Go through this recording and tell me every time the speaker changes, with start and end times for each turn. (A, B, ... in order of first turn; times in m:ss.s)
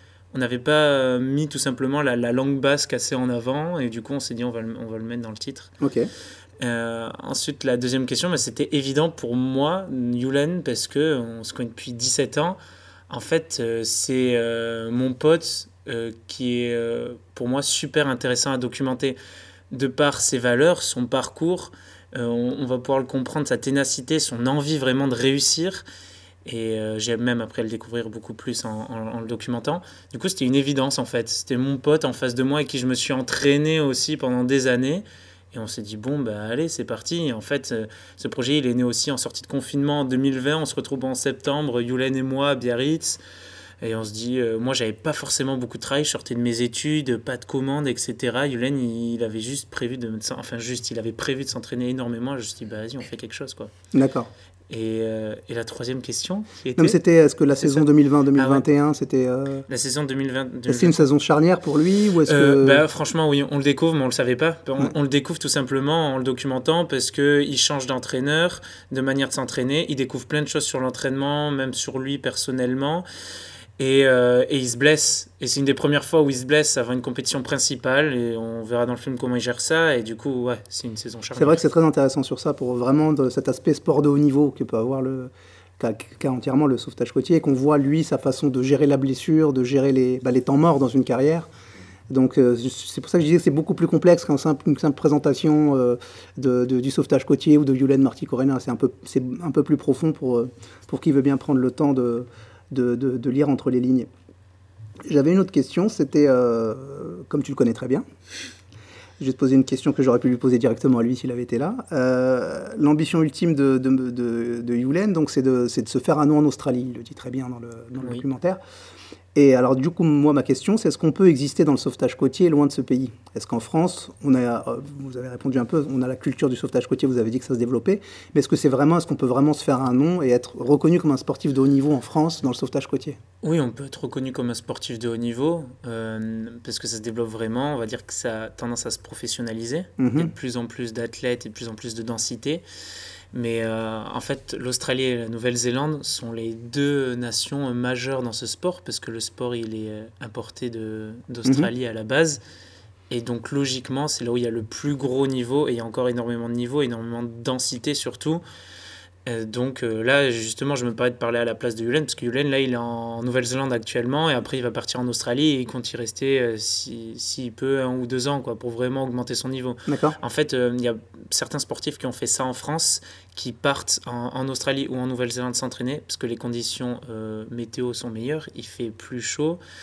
0:00.3-0:05.7 A
0:05.8-0:06.1 B
0:06.6-0:12.6 A
0:13.1-0:19.2 A
0:19.7-0:25.8 A
0:26.4-0:43.2 A
0:43.8-0:53.7 A
0:53.9-0:54.3 B
0:54.7-0:57.0 A
0:56.8-0:59.7 B
0:57.5-0:58.6 A
0:59.7-1:01.1 A
1:00.7-1:02.8 B
1:02.3-1:13.1 A
1:13.8-1:21.6 A
1:21.4-1:31.5 B
1:32.1-1:44.1 B
1:45.0-1:48.0 B
1:49.2-1:58.6 B
1:59.4-2:13.2 B
2:13.4-2:22.6 A
2:20.0-2:20.3 B
2:23.3-2:32.4 A
2:33.1-2:38.4 A
2:39.3-2:59.6 A
2:49.9-2:50.2 B